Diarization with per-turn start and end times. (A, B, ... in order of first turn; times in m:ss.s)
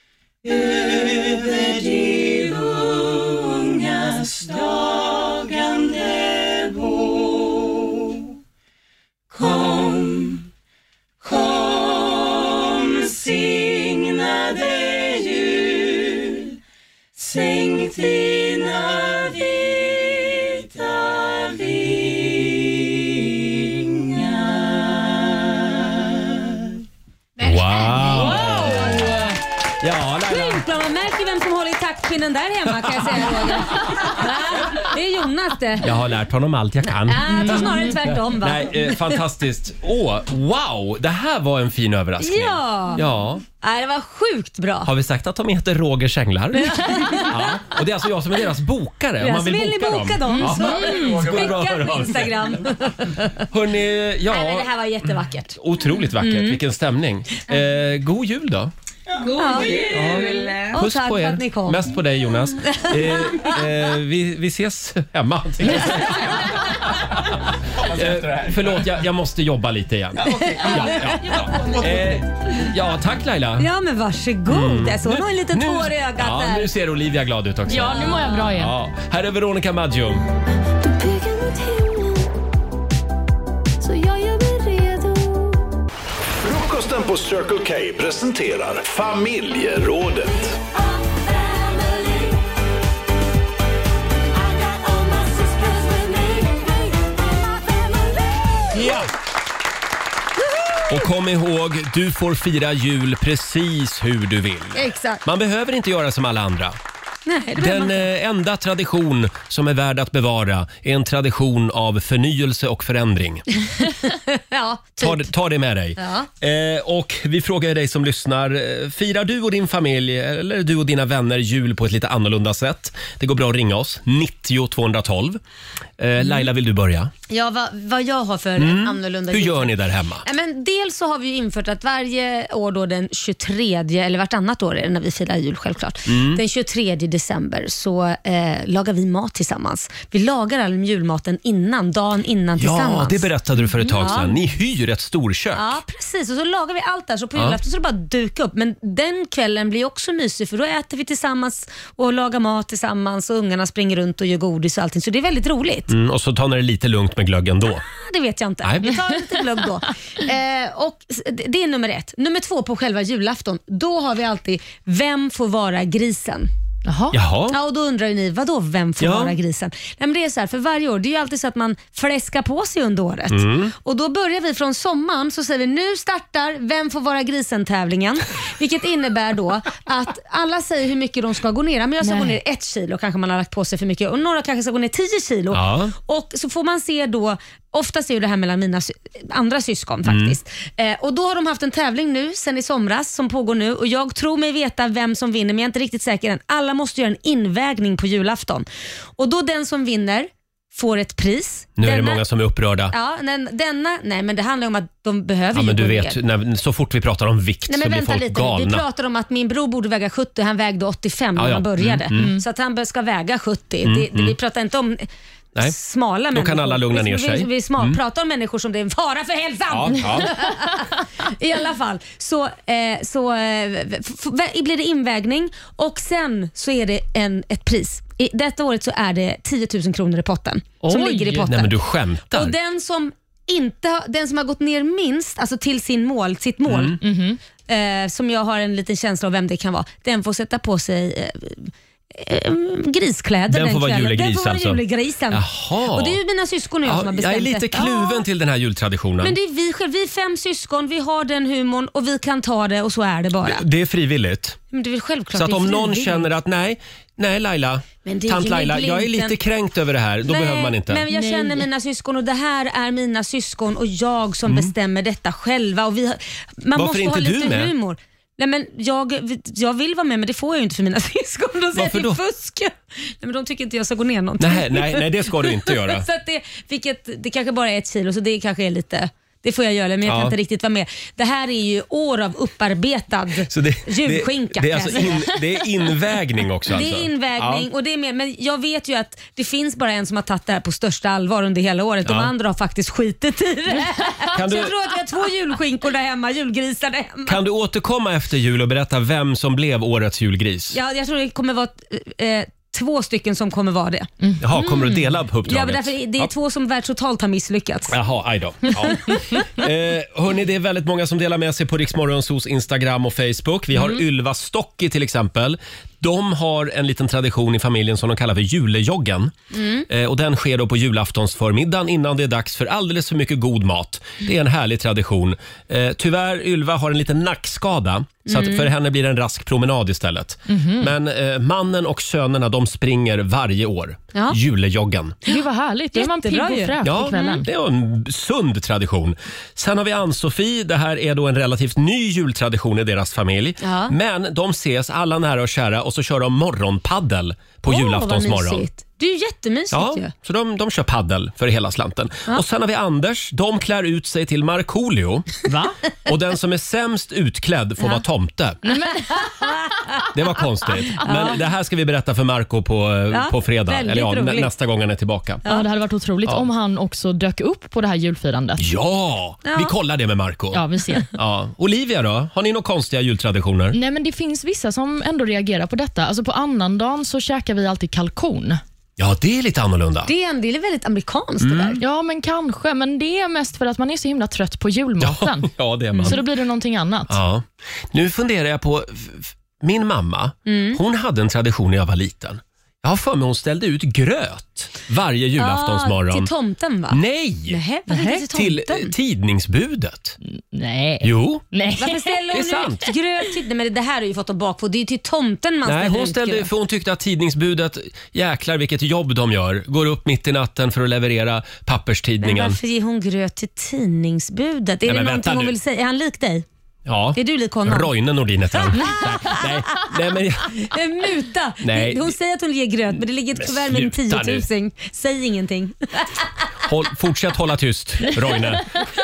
0:00.4-0:08.4 A
0:09.3-0:10.5 A
0:11.2-0:16.6 A
0:17.1-0:26.8 A
0:27.4-0:29.2 B
0:27.5-0:29.1 C
0:29.8-0:30.6 B
0:30.3-0:35.9 C
0:33.0-0:33.3 B
0:35.8-0:43.4 B
0:37.0-0:39.2 C
0:37.4-0:37.9 D
0:42.2-0:43.0 C
0:43.6-0:44.9 C
0:44.8-0:52.7 B
0:46.5-0:47.8 C
0:49.2-0:53.4 C
0:50.3-0:51.0 D
0:53.5-0:54.7 B
0:54.3-0:55.6 C
0:55.6-0:58.7 B
0:56.2-0:56.6 C
0:59.1-1:00.7 A
0:59.4-0:59.8 C
0:59.9-1:13.7 B
1:00.7-1:01.8 C
1:02.6-1:03.6 C
1:10.5-1:11.0 C
1:13.6-1:16.7 C
1:14.4-1:20.2 B
1:17.7-1:18.7 D
1:20.9-1:22.0 D
1:23.8-1:25.6 D
1:26.3-1:30.6 E
1:38.7-1:39.1 B
1:40.5-1:40.9 C
1:40.9-1:46.8 B
1:44.7-1:45.2 C
1:47.2-1:48.1 C
1:47.6-1:53.4 B
1:53.8-1:55.3 C
1:55.0-2:05.4 B
1:56.0-1:56.3 C
2:06.0-2:07.1 B
2:07.3-2:09.7 C
2:08.6-2:10.2 B
2:10.2-2:23.3 C
2:16.1-2:16.4 B
2:22.6-2:25.8 B
2:23.8-2:24.0 D
2:24.0-2:24.4 C
2:25.5-2:35.9 C
2:35.9-2:37.8 B
2:37.9-2:46.5 C
2:38.6-2:39.0 B
2:46.8-2:47.2 D
2:47.1-2:47.6 B
2:47.5-3:18.6 C
2:49.0-2:49.4 B
2:53.3-2:53.7 B
3:02.0-3:02.4 D
3:05.5-3:05.9 B
3:10.0-3:10.4 B
3:19.2-3:22.2 C
3:21.8-3:22.9 B
3:22.9-3:26.2 C
3:25.5-3:28.8 B
3:27.7-3:51.8 C
3:31.4-3:32.3 B
3:32.1-3:32.4 D
3:33.8-3:34.4 B
3:36.3-3:38.0 B
3:39.7-3:40.4 B
3:50.8-3:51.5 D
3:51.4-3:52.5 B
3:52.3-3:57.0 C
3:56.7-3:57.0 B
3:57.0-3:57.4 D
3:57.7-4:08.2 C
4:03.5-4:06.2 B
4:06.8-4:09.4 B
4:09.2-4:13.6 C
4:13.4-4:14.6 B
4:14.7-4:16.2 C
4:15.3-4:21.1 B
4:18.0-4:19.3 C
4:20.2-4:45.2 C
4:21.1-4:21.6 D
4:24.5-4:24.7 B
4:26.7-4:27.7 B
4:31.7-4:32.2 B
4:34.4-4:36.1 B
4:40.0-4:40.4 B
4:43.5-4:47.6 B
4:46.7-4:57.4 C
4:52.0-4:52.3 B
4:54.3-4:54.7 B
4:57.2-5:00.8 B
5:00.7-5:08.0 C
5:04.2-5:04.9 D
5:04.4-5:06.3 B
5:07.9-5:19.3 B
5:13.8-5:14.0 D
5:19.5-5:19.8 C
5:19.9-5:35.2 B
5:28.3-5:28.7 C
5:30.5-5:30.9 D
5:34.1-5:34.4 C
5:35.3-5:37.4 D
5:35.9-5:36.8 C
5:36.8-5:48.7 B
5:43.6-5:43.9 C
5:47.6-5:50.1 C
5:49.7-5:55.4 B
5:55.4-5:55.8 D
5:56.0-5:58.6 B
5:58.7-5:59.2 D
5:59.2-6:00.0 C
6:00.1-6:05.4 B
6:01.0-6:01.4 C
6:03.1-6:04.5 C
6:05.5-6:08.6 D
6:08.6-6:13.8 B
6:09.4-6:09.7 C
6:10.5-6:11.1 D
6:13.7-6:18.6 D
6:19.0-6:20.1 B
6:20.0-6:21.8 C
6:21.4-6:21.8 B
6:21.8-6:25.5 D
6:25.0-6:26.2 B
6:26.0-6:27.2 D
6:27.1-6:36.3 B
6:30.4-6:30.8 C
6:35.4-6:38.9 C
6:36.9-6:40.2 B
6:40.3-6:42.1 D
6:41.0-6:41.4 B
6:41.8-6:46.5 C
6:42.3-6:42.9 B
6:45.6-6:52.6 B
6:52.2-6:56.4 C
6:54.8-6:55.5 B
6:56.8-7:00.6 B
6:57.1-6:57.9 C
6:58.6-6:59.9 C
7:00.6-7:06.3 C
7:01.6-7:02.1 B
7:03.4-7:04.4 B
7:06.6-7:08.8 B